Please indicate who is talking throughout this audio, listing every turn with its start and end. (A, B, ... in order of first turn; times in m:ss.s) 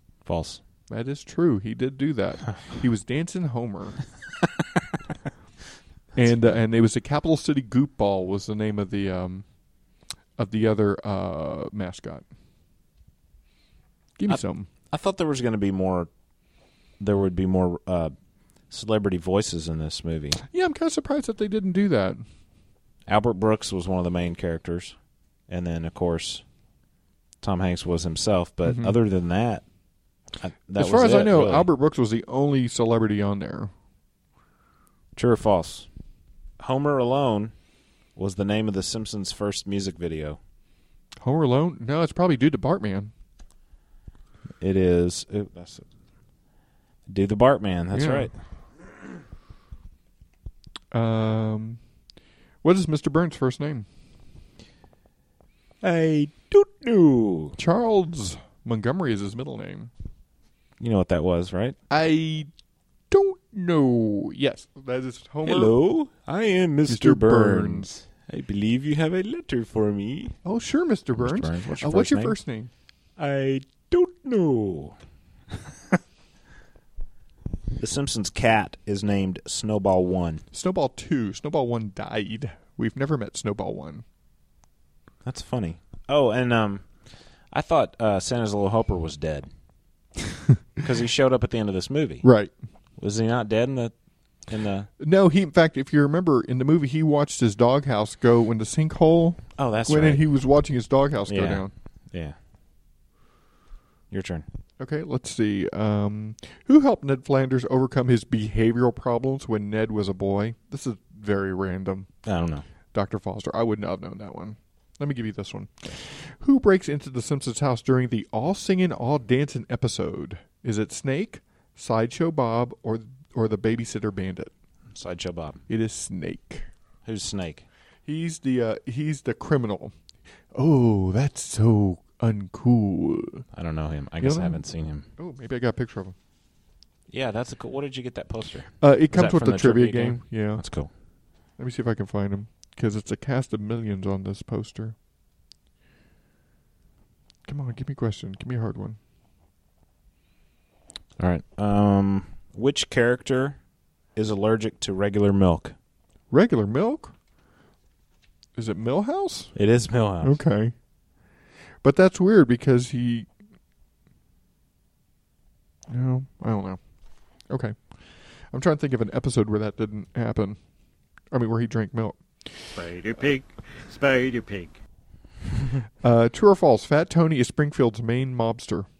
0:00.2-0:00.6 A
0:00.9-0:04.0 B
0:06.2-0:09.4 B
0:10.4-0:12.2 B
0:14.2-0:14.7 B
0:14.3-0:16.1 A
0:17.0-0:18.1 A
0:18.7-0:20.4 A
0:20.5-0:22.2 B
0:23.1-0:25.0 A
0:25.5-0:26.4 A
0:27.4-0:29.6 A
0:28.6-0:29.0 B
0:30.4-0:31.7 A
0:30.8-0:33.7 B
0:35.1-0:35.9 A
0:36.6-0:37.5 A
0:38.2-0:40.4 A
0:41.2-0:43.1 B
0:44.6-0:45.8 A
0:47.1-0:48.3 A
0:47.9-0:48.3 B
0:50.9-0:51.8 B
0:52.6-0:53.9 B
0:55.8-0:57.6 A
0:57.6-0:59.9 B
1:00.8-1:01.8 A
1:01.9-1:02.5 B
1:03.1-1:05.7 B
1:05.4-1:10.4 A
1:06.9-1:07.9 B
1:10.4-1:12.7 B
1:11.1-1:12.4 A
1:13.2-1:15.0 A
1:17.8-1:20.4 A
1:20.5-1:24.0 B
1:25.2-1:26.9 A
1:27.5-1:29.5 A
1:30.8-1:32.2 A
1:32.2-1:32.5 B
1:33.0-1:34.9 A
1:35.0-1:41.7 B
1:39.6-1:40.2 A
1:41.3-1:42.4 A
1:44.1-1:44.4 A
1:44.8-1:52.1 B
1:52.2-1:52.6 A
1:52.9-2:04.5 B
2:04.9-2:05.6 A
2:05.7-2:06.7 B
2:07.0-2:07.6 A
2:08.0-2:09.9 B
2:10.5-2:13.4 B
2:13.5-2:15.1 A
2:14.2-2:14.6 B
2:15.2-2:16.1 B
2:17.1-2:20.9 A
2:18.8-2:20.6 B
2:21.6-2:24.9 B
2:27.4-2:29.0 B
2:31.2-2:33.6 A
2:34.1-2:35.7 A
2:36.3-2:37.1 B
2:38.6-2:39.6 B
2:39.5-2:40.4 A
2:40.2-2:40.7 B
2:41.8-2:43.3 B
2:45.9-2:46.8 B
2:47.5-2:47.8 B
2:48.5-2:50.6 B
2:51.3-2:52.2 B
2:52.7-2:54.8 C
2:56.0-2:58.9 B